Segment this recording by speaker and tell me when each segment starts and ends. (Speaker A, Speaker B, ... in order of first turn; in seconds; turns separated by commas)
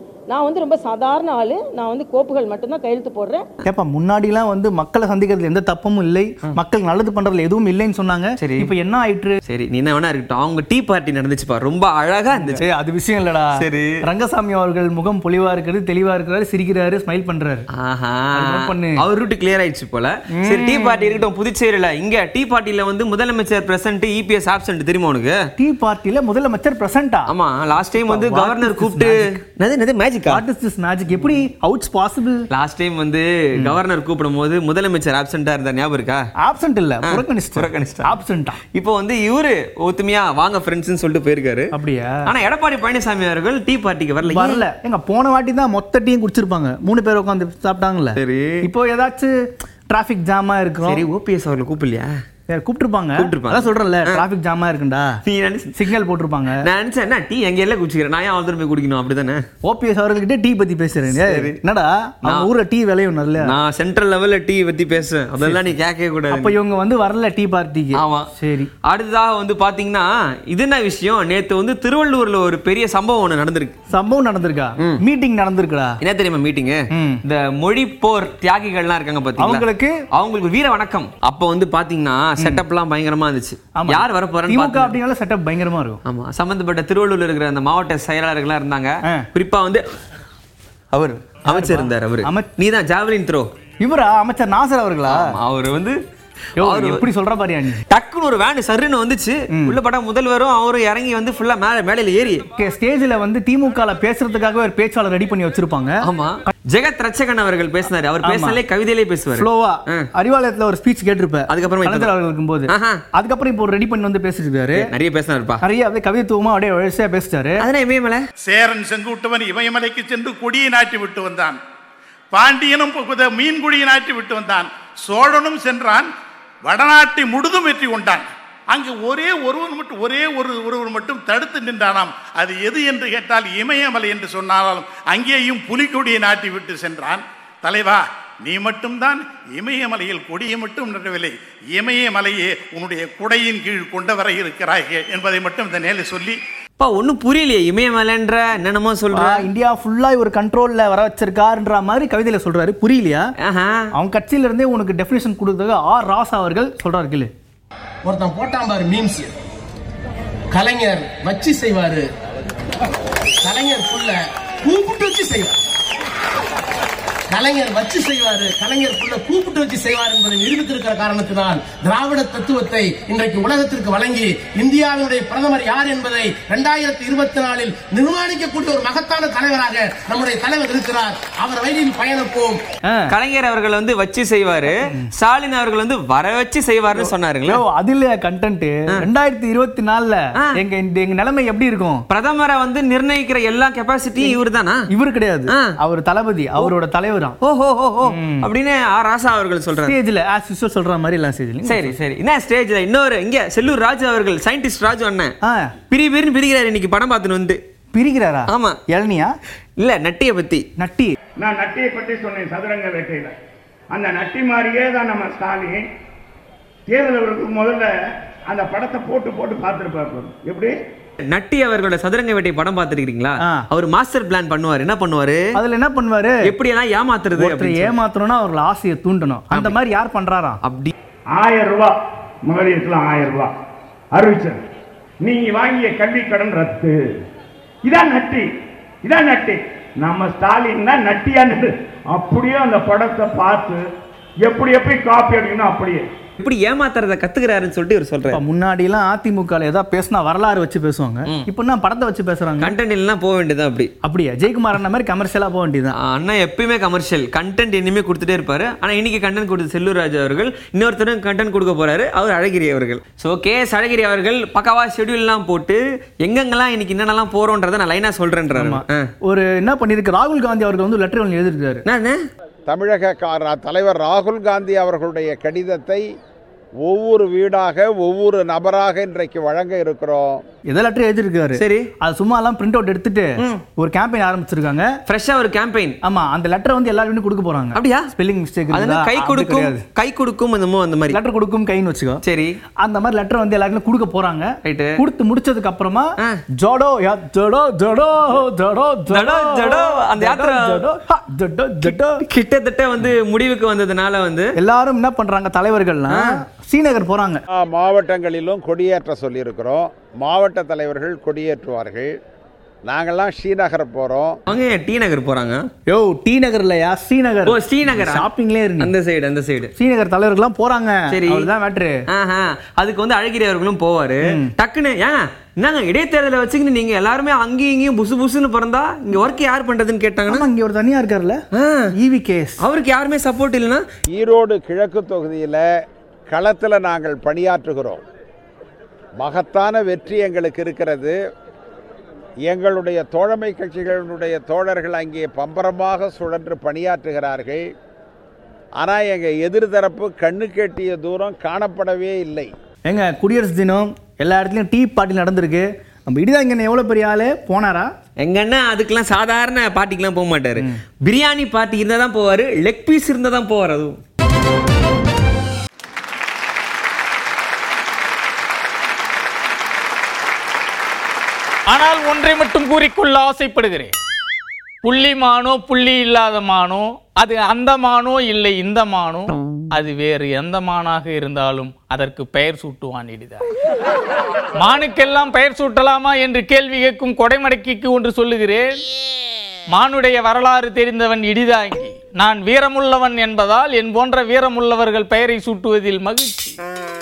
Speaker A: 0.3-3.5, Speaker B: 3.6-9.4, Speaker C: 8.4-8.7, Speaker C: 9.5-12.6, Speaker B: 12.3-17.6, Speaker C: 13.6-13.9, Speaker C: 17.8-25.4, Speaker B: 18.4-19.0, Speaker B: 20.3-21.0, Speaker B: 25.6-27.3, Speaker C: 27.3-30.4, Speaker B: 28.0-29.4, Speaker B: 30.3-32.5, Speaker C: 32.5-36.2, Speaker B: 36.4-38.6, Speaker C: 37.0-38.1, Speaker C: 38.7-41.7, Speaker B: 41.7-42.3, Speaker C: 42.2-44.6, Speaker B: 44.3-49.3, Speaker C: 48.2-48.7, Speaker B: 49.9-51.1, Speaker C: 50.8-52.1, Speaker B: 52.5-55.2, Speaker C: 53.2-54.2, Speaker C: 55.2-55.8, Speaker B: 55.8-56.7, Speaker C: 56.6-59.4, Speaker B: 59.6-63.5, Speaker C: 61.0-61.6, Speaker C: 63.4-66.6, Speaker B: 65.4-65.7, Speaker B: 66.3-68.7, Speaker C: 68.0-68.3, Speaker C: 68.9-73.8, Speaker B: 73.9-76.0, Speaker C: 76.0-85.0, Speaker B: 76.9-77.2, Speaker B: 79.4-80.0, Speaker B: 82.4-82.6, Speaker B: 83.8-86.0, Speaker C: 86.0-89.8, Speaker B: 90.9-92.5, Speaker C: 91.3-93.5, Speaker B: 93.8-95.4, Speaker C: 95.1-96.0, Speaker B: 96.6-97.8, Speaker C: 96.6-97.0, Speaker C: 97.9-102.5, Speaker B: 99.5-99.8, Speaker B: 102.6-106.5, Speaker C: 106.0-110.1, Speaker B: 108.2-108.6, Speaker B: 109.3-114.8, Speaker C: 111.5-112.1, Speaker C: 112.7-113.0, Speaker C: 114.8-115.6, Speaker B: 115.6-117.6, Speaker C: 117.6-118.2, Speaker D: 118.4-121.6, Speaker D: 122.3-126.1, Speaker D: 126.7-146.4, Speaker C: 146.8-149.5, Speaker B: 149.1-153.3, Speaker C: 153.4-153.9, Speaker B: 153.9-157.3, Speaker E: 158.1-159.3, Speaker E: 160.5-162.1, Speaker E: 163.4-165.6, Speaker E: 167.3-182.6, Speaker B: 182.9-183.1, Speaker C: 183.1-187.6, Speaker B: 184.8-185.1, Speaker B: 186.9-192.1, Speaker C: 192.1-194.8, Speaker B: 194.2-197.4, Speaker C: 197.4-200.0, Speaker B: 198.1-198.5, Speaker B: 199.8-202.0, Speaker C: 201.7-205.3, Speaker B: 205.4-205.8, Speaker C: 205.9-207.6, Speaker B: 207.9-209.3, Speaker C: 208.5-208.8, Speaker C: 209.8-210.7, Speaker B: 210.8-211.2, Speaker F: 211.4-213.3, Speaker F: 214.0-215.8, Speaker F: 216.9-217.9, Speaker F: 218.5-220.7, Speaker C: 221.3-225.4, Speaker B: 225.5-226.5, Speaker C: 226.4-227.9, Speaker B: 227.3-230.6, Speaker C: 229.5-229.8, Speaker C: 230.6-230.9, Speaker F: 231.4-231.9, Speaker F: 232.5-233.5, Speaker F: 234.2-234.6, Speaker F: 235.3-236.9, Speaker F: 237.9-238.4, Speaker F: 239.1-243.8, Speaker F: 244.5-246.0, Speaker C: 246.4-248.4, Speaker B: 248.3-252.7, Speaker C: 252.6-253.9, Speaker B: 254.0-256.0, Speaker C: 256.0-269.1, Speaker B: 268.6-271.8, Speaker C: 271.9-272.2, Speaker G: 272.7-276.0, Speaker G: 276.8-280.4, Speaker B: 280.6-284.9, Speaker C: 281.6-281.9, Speaker C: 285.1-286.0, Speaker B: 286.0-289.8, Speaker C: 287.7-288.1, Speaker C: 288.7-291.2, Speaker B: 291.1-292.2, Speaker C: 292.2-292.6, Speaker B: 292.8-302.2, Speaker C: 294.6-295.0, Speaker C: 299.1-300.8, Speaker C: 301.9-304.5, Speaker B: 304.6-307.4, Speaker G: 307.6-312.1, Speaker G: 312.9-314.4, Speaker C: 314.5-315.6, Speaker B: 315.9-318.9, Speaker C: 317.5-319.7, Speaker B: 319.8-322.0, Speaker C: 321.1-321.5, Speaker C: 322.1-330.5, Speaker B: 330.3-331.4, Speaker C: 331.6-331.9, Speaker B: 331.9-332.6, Speaker C: 332.6-333.9, Speaker G: 334.1-335.6, Speaker G: 336.3-338.0, Speaker G: 339.2-341.2, Speaker G: 342.5-347.7, Speaker G: 348.8-352.5, Speaker B: 352.9-357.9, Speaker C: 358.2-364.0, Speaker H: 371.7-374.0, Speaker H: 374.8-383.4, Speaker H: 384.6-388.8, Speaker H: 389.7-396.6